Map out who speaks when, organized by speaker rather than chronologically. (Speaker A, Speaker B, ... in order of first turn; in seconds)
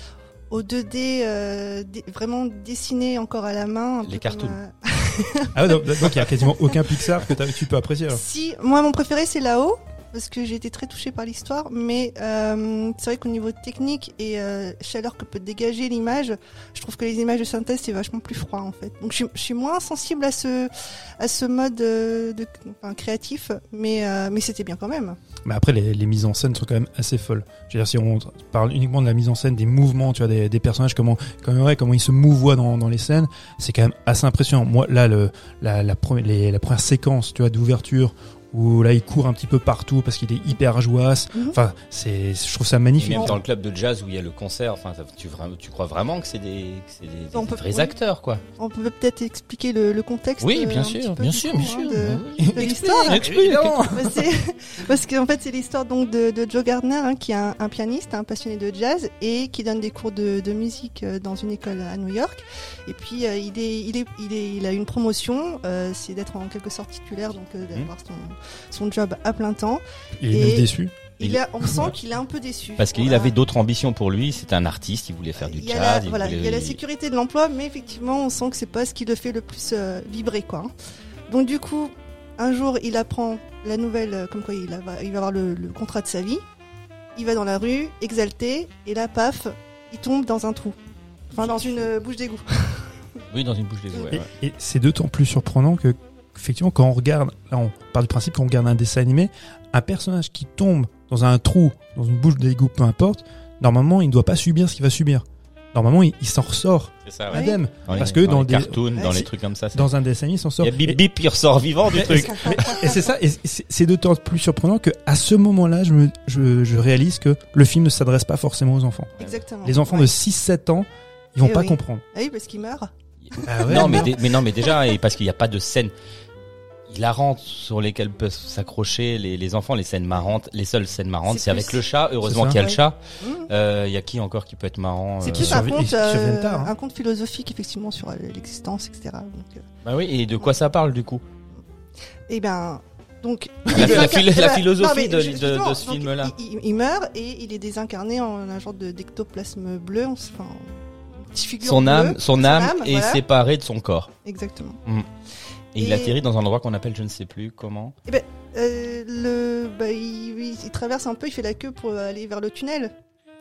Speaker A: 0.5-6.8, 8.1-25.2, 47.3-47.9, 48.6-53.3, 53.9-73.3, 75.4-80.7, 81.3-86.4, 87.2-90.8, 91.3-93.2, 107.3-107.6, 109.0-109.2, 112.5-113.0, 119.2-120.1, 121.4-123.6, 131.3-131.8, 132.6-133.5, 135.3-139.6, 142.3-153.2, 154.2-154.8, 155.8-156.2, 158.1-162.9
Speaker B: 4.0-4.6, 43.0-48.4, 50.4-53.7, 72.8-76.8, 93.3-94.3, 107.0-109.9, 110.6-112.7, 123.7-125.9, 126.9-135.6, 139.8-141.2, 143.7-146.3, 151.6-154.1, 155.8-157.9
Speaker C: 5.5-8.2, 25.4-43.4, 52.4-54.2, 70.2-71.0, 71.6-72.0, 94.1-111.0, 111.9-119.1, 119.6-122.0, 123.5-124.2, 132.2-132.7, 135.2-136.7